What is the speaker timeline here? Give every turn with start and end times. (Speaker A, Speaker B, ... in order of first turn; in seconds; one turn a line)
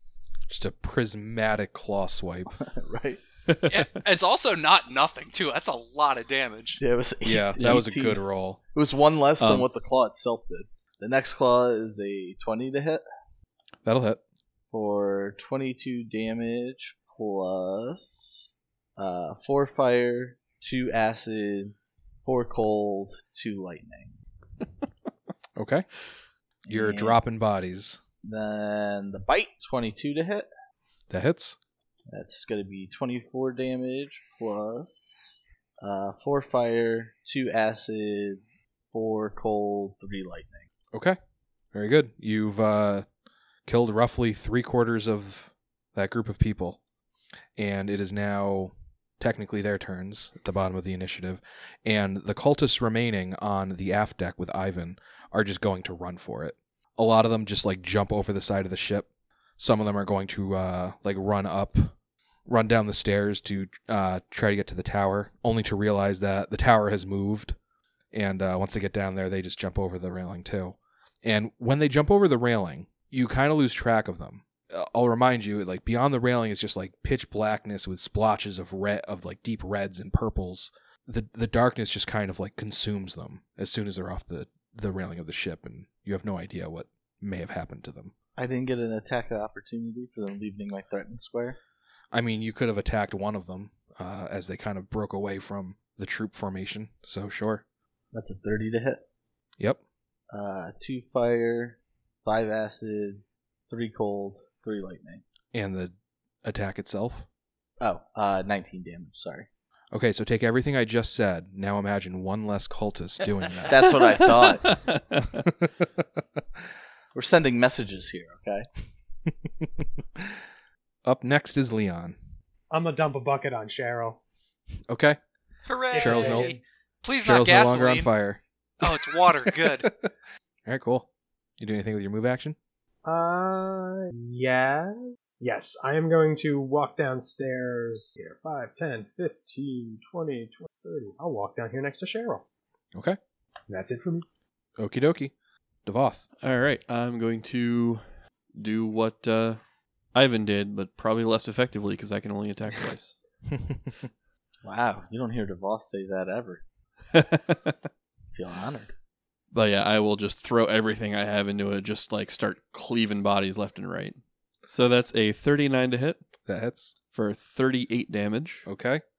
Speaker A: 0.5-2.5
Speaker B: 2.5-3.2
Speaker C: 3.5-3.9
Speaker D: 3.7-6.8
Speaker B: 6.8-8.2
Speaker A: 7.2-8.6
Speaker B: 8.7-13.0
Speaker C: 9.4-9.7
Speaker A: 13.8-14.2
Speaker B: 14.7-18.4
Speaker B: 19.0-24.1
Speaker A: 25.6-25.9
Speaker B: 26.7-27.2
Speaker A: 26.7-28.0
Speaker B: 28.2-30.5
Speaker A: 31.1-31.6
Speaker B: 32.1-35.3
Speaker B: 35.8-40.6
Speaker A: 41.7-43.1
Speaker A: 43.7-46.8
Speaker A: 47.6-61.9
Speaker A: 62.5-67.5
Speaker A: 68.1-88.1
Speaker B: 88.4-91.6
Speaker A: 92.1-97.6
Speaker B: 98.1-99.0
Speaker B: 100.3-105.2
Speaker A: 105.5-107.3
Speaker B: 107.8-109.5
Speaker A: 109.9-113.9
Speaker B: 113.7-114.8
Speaker C: 114.6-115.5
Speaker A: 115.4-116.2
Speaker B: 117.1-118.7
Speaker A: 119.3-120.4
Speaker A: 121.0-122.2
Speaker E: 122.7-124.2
Speaker A: 124.9-125.2
Speaker D: 125.7-128.1
Speaker E: 125.9-126.6
Speaker A: 125.9-126.5
Speaker A: 127.2-130.1
Speaker D: 128.8-129.9
Speaker A: 130.7-131.1
Speaker A: 131.6-132.6
Speaker E: 133.1-142.4
Speaker E: 143.7-144.2
Speaker A: 144.8-145.3
Speaker A: 145.9-146.2
Speaker C: 146.4-149.6
Speaker C: 150.1-153.1
Speaker B: 154.6-156.6
Speaker C: 157.1-157.8
Speaker B: 158.3-158.9
Speaker C: 159.5-166.2
Speaker A: 166.4-166.9
Speaker C: 167.1-168.7
Speaker A: 168.7-169.0